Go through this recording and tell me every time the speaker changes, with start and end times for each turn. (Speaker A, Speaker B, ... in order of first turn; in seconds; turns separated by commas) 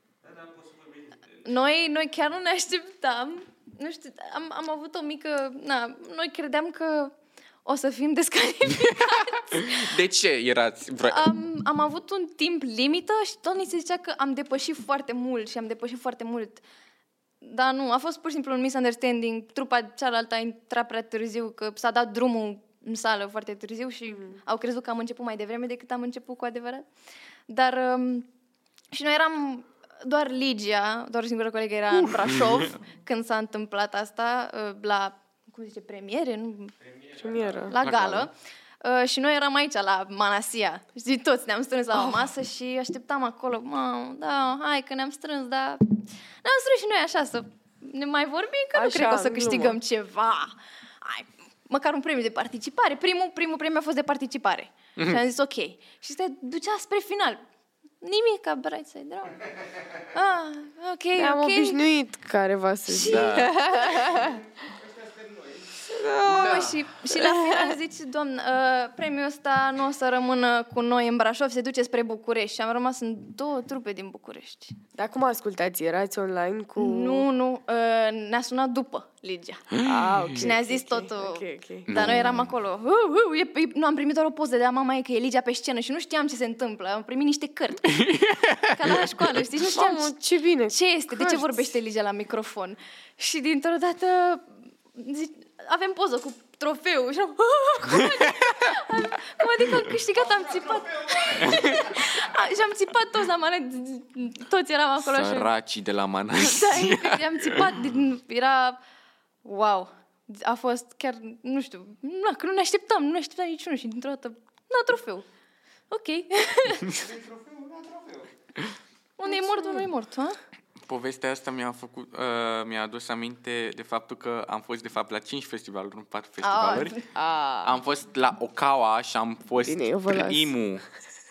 Speaker A: 0.2-1.5, Speaker B: 1.4-7.1, Speaker B: 7.6-9.9, Speaker C: 8.7-11.3, Speaker B: 11.1-16.6, Speaker B: 17.4-26.9, Speaker B: 27.5-28.3, Speaker B: 28.9-36.7, Speaker A: 36.8-37.8, Speaker D: 37.2-37.7, Speaker B: 37.7-38.3, Speaker C: 37.8-38.3, Speaker B: 38.8-57.4, Speaker D: 41.9-42.2, Speaker D: 48.7-49.8, Speaker C: 55.0-55.2, Speaker B: 58.0-59.5, Speaker B: 60.1-61.8, Speaker D: 61.1-64.4, Speaker B: 62.9-64.1, Speaker C: 63.0-63.6, Speaker A: 64.0-66.0, Speaker D: 65.8-67.8, Speaker B: 66.2-74.8, Speaker C: 66.4-66.6, Speaker D: 74.9-77.2, Speaker B: 76.8-79.8, Speaker C: 79.7-80.3, Speaker D: 79.8-81.9, Speaker B: 80.3-88.0, Speaker C: 81.9-82.5, Speaker C: 87.8-89.5, Speaker B: 88.7-90.2, Speaker D: 89.6-91.7, Speaker B: 90.7-105.5, Speaker C: 97.9-98.5, Speaker A: 100.1-102.4, Speaker C: 101.4-101.8, Speaker C: 105.0-107.8, Speaker B: 106.3-108.8, Speaker B: 109.4-115.2, Speaker B: 115.9-116.9, Speaker A: 116.9-118.3, Speaker B: 119.2-120.4, Speaker D: 119.2-119.9, Speaker C: 120.8-127.0, Speaker B: 126.4-127.1, Speaker D: 127.1-127.8, Speaker C: 127.6-130.8, Speaker D: 129.6-130.5